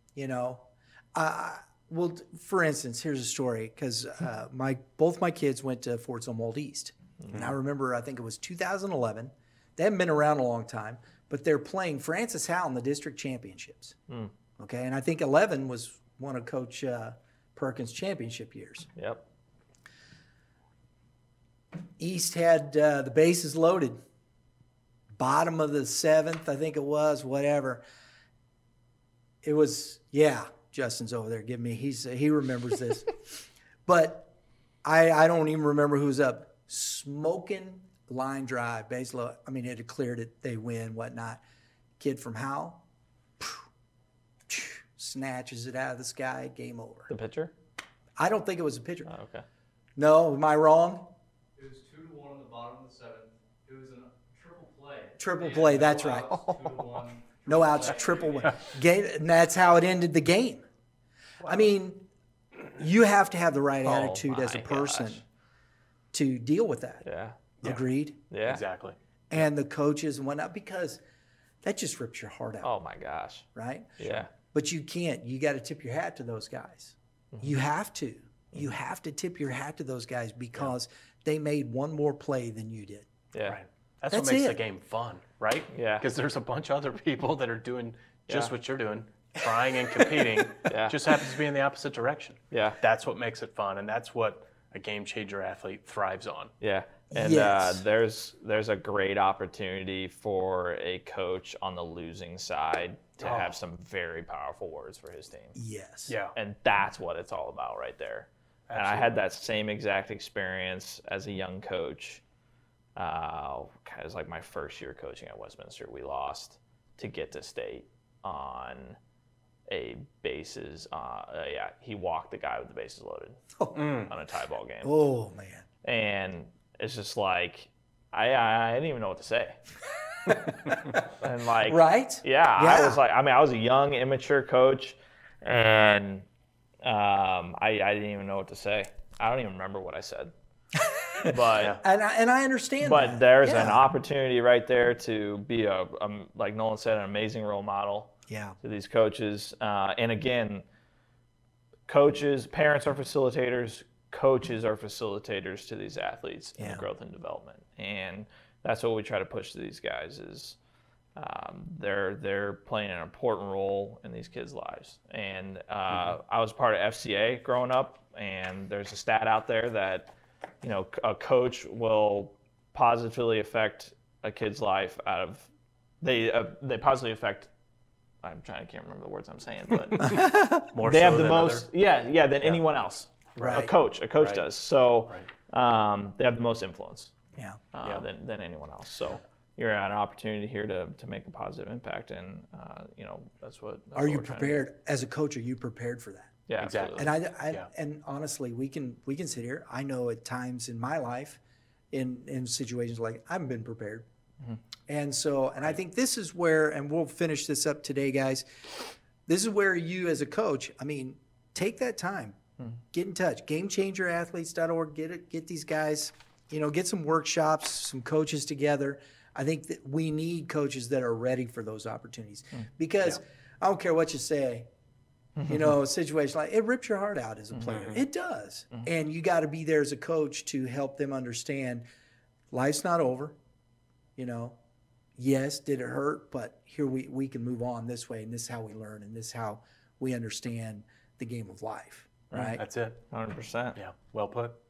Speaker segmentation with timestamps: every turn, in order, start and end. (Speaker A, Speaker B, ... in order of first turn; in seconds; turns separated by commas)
Speaker A: 0.1-14.0, Speaker A: 14.6-18.9, Speaker B: 18.9-19.2, Speaker A: 22.0-24.0, Speaker A: 25.1-27.8, Speaker A: 29.4-34.3, Speaker A: 34.8-41.4, Speaker A: 42.0-42.8, Speaker A: 43.4-43.6, Speaker A: 44.5-47.1, Speaker B: 47.1-47.5, Speaker A: 48.2-49.1, Speaker B: 49.1-49.4, Speaker A: 50.0-51.1, Speaker C: 51.6-58.6, Speaker A: 55.2-56.9, Speaker A: 57.4-60.6, Speaker D: 58.4-58.7, Speaker D: 61.4-61.7, Speaker A: 61.4-62.1, Speaker A: 62.7-65.2, Speaker B: 63.8-65.2, Speaker A: 66.1-67.0, Speaker B: 67.0-67.4, Speaker A: 67.6-68.2, Speaker B: 68.3-68.6, Speaker D: 68.5-69.0, Speaker A: 69.3-71.0, Speaker A: 71.6-72.7, Speaker B: 72.6-73.5, Speaker A: 73.5-83.1, Speaker B: 74.0-74.3, Speaker B: 77.3-77.6, Speaker B: 83.3-83.6, Speaker D: 83.4-96.5, Speaker A: 84.1-84.6, Speaker B: 85.7-86.0, Speaker B: 88.3-88.5, Speaker B: 90.6-91.0, Speaker B: 92.5-92.8, Speaker B: 96.6-105.6, Speaker A: 97.1-97.8, Speaker D: 103.2-103.5, Speaker A: 105.5-106.1, Speaker D: 106.1-106.3, Speaker B: 106.3-112.2, Speaker D: 108.7-109.2, Speaker B: 113.0-119.0, Speaker B: 119.7-123.4, Speaker A: 123.6-123.9, Speaker D: 123.7-124.1, Speaker B: 124.1-124.9, Speaker A: 124.8-125.7, Speaker B: 125.8-129.6, Speaker A: 130.3-130.8, Speaker B: 131.2-136.3, Speaker A: 131.7-133.0, Speaker B: 136.8-140.3, Speaker A: 140.8-143.8, Speaker B: 141.2-141.8, Speaker B: 142.8-150.6, Speaker A: 148.3-148.6, Speaker B: 151.9-160.6, Speaker A: 156.6-156.8, Speaker B: 161.2-175.5, Speaker B: 176.0-177.5, Speaker B: 178.2-180.2, Speaker A: 180.0-180.7, Speaker D: 180.6-181.7, Speaker B: 180.8-187.1, Speaker A: 183.4-183.7, Speaker D: 183.4-184.4, Speaker B: 187.7-194.6, Speaker A: 193.9-196.3, Speaker B: 196.5-197.1, Speaker D: 196.6-197.7, Speaker A: 196.9-201.4, Speaker A: 201.9-204.1, Speaker A: 204.9-208.4, Speaker A: 209.3-212.4, Speaker A: 212.9-224.7, Speaker A: 225.4-231.8, Speaker D: 227.7-228.0, Speaker A: 232.5-233.4, Speaker A: 234.2-234.6, Speaker A: 235.2-242.6, Speaker B: 242.3-243.8, Speaker D: 242.6-243.0, Speaker D: 243.8-244.6